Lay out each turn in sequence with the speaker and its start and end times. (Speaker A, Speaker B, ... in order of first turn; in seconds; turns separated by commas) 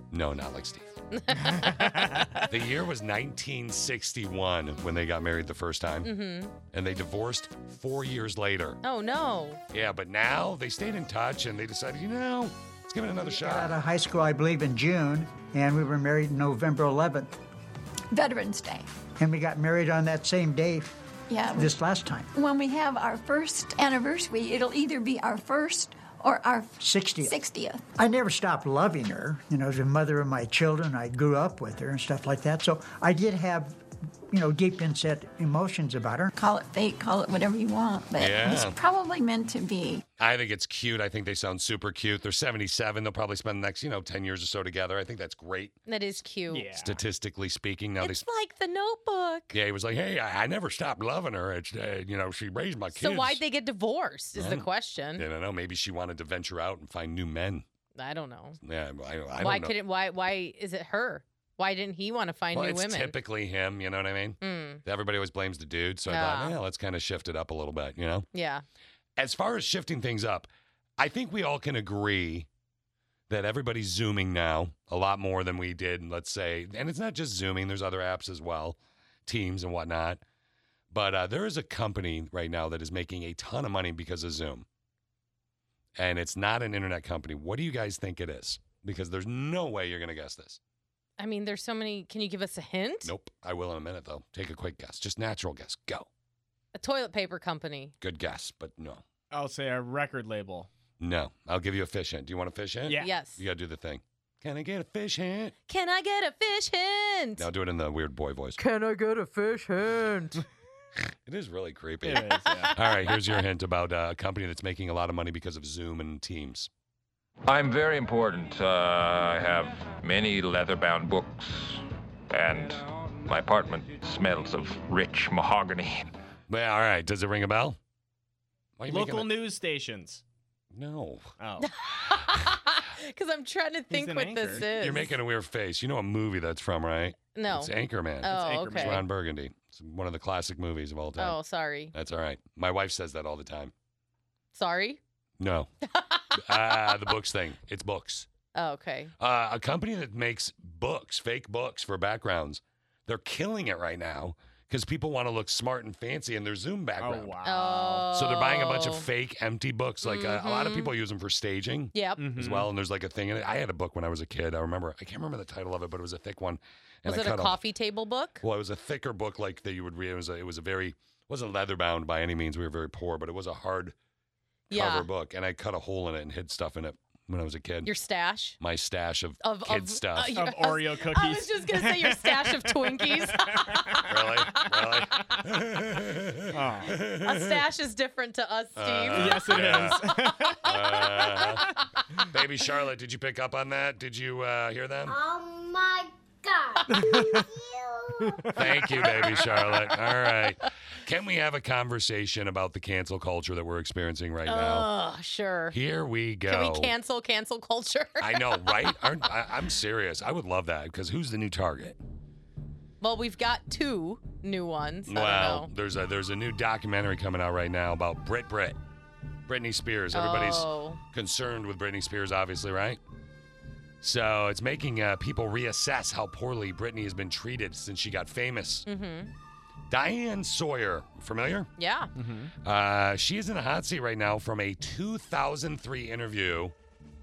Speaker A: 0.1-0.9, Speaker B: 1.1-2.4, Speaker C: 1.6-2.4, Speaker A: 2.5-6.1, Speaker B: 6.0-6.5, Speaker A: 6.7-8.8, Speaker B: 8.8-9.6, Speaker A: 9.7-13.7, Speaker D: 13.3-17.4, Speaker E: 18.1-18.9, Speaker D: 19.2-20.9, Speaker E: 21.3-21.7, Speaker D: 21.5-22.3, Speaker E: 22.3-27.8, Speaker D: 26.8-27.4, Speaker D: 28.0-36.3, Speaker E: 36.3-40.0, Speaker A: 38.2-38.8, Speaker A: 40.2-45.8, Speaker B: 45.9-46.7, Speaker C: 46.5-47.0, Speaker A: 46.8-48.2, Speaker B: 48.0-49.5, Speaker A: 49.5-53.4, Speaker B: 52.9-55.2, Speaker A: 54.4-57.6, Speaker B: 58.0-58.6, Speaker A: 58.6-59.7, Speaker B: 59.4-63.1, Speaker A: 62.5-68.3, Speaker B: 64.4-64.8, Speaker B: 66.1-66.5, Speaker B: 68.3-68.6, Speaker A: 69.2-72.5, Speaker A: 73.3-80.2, Speaker A: 80.9-84.7, Speaker A: 86.0-90.6, Speaker B: 91.2-93.1, Speaker A: 93.0-96.1, Speaker B: 96.7-97.9, Speaker A: 98.0-99.0, Speaker C: 99.3-100.7, Speaker A: 101.0-105.5, Speaker C: 102.9-103.1, Speaker B: 103.0-103.4, Speaker B: 105.7-107.5, Speaker A: 107.4-108.6, Speaker B: 108.6-110.4, Speaker A: 111.2-116.7, Speaker C: 112.0-112.7, Speaker F: 117.5-126.1, Speaker A: 126.5-127.8, Speaker A: 128.8-129.3, Speaker C: 128.9-130.2, Speaker A: 130.7-131.3, Speaker C: 131.4-131.7, Speaker B: 131.6-135.1, Speaker C: 133.9-134.7, Speaker A: 134.7-141.4, Speaker B: 137.3-139.0, Speaker C: 138.3-139.0, Speaker B: 141.2-141.9, Speaker A: 141.9-143.7, Speaker B: 144.5-145.0, Speaker A: 145.4-145.7, Speaker B: 145.9-147.1, Speaker A: 146.3-148.3, Speaker B: 148.5-149.1, Speaker A: 149.2-157.3, Speaker C: 157.0-158.1, Speaker B: 157.4-159.1, Speaker A: 158.1-167.6, Speaker B: 160.0-160.9, Speaker B: 161.9-162.2, Speaker C: 162.2-162.7, Speaker B: 167.0-168.4, Speaker A: 168.4-173.9, Speaker A: 174.7-177.9, Speaker B: 174.7-175.1, Speaker B: 177.8-178.6, Speaker A: 178.6-180.4, Speaker B: 179.4-184.0, Speaker C: 180.3-184.3, Speaker A: 184.1-187.6, Speaker C: 186.5-187.0, Speaker B: 187.2-190.1, Speaker A: 188.8-190.0, Speaker C: 189.1-191.6, Speaker A: 190.6-191.7, Speaker A: 192.3-195.2, Speaker C: 196.9-197.4, Speaker C: 198.2-199.1, Speaker A: 198.5-204.9, Speaker B: 204.4-205.8, Speaker A: 205.7-206.9, Speaker B: 206.5-209.1, Speaker A: 208.2-212.0, Speaker B: 213.0-215.7, Speaker A: 215.1-218.8, Speaker A: 219.5-223.0, Speaker B: 220.1-221.0, Speaker A: 224.0-228.8, Speaker B: 228.9-229.3, Speaker A: 229.9-231.7, Speaker B: 231.8-232.1, Speaker C: 232.2-232.5, Speaker A: 232.6-236.7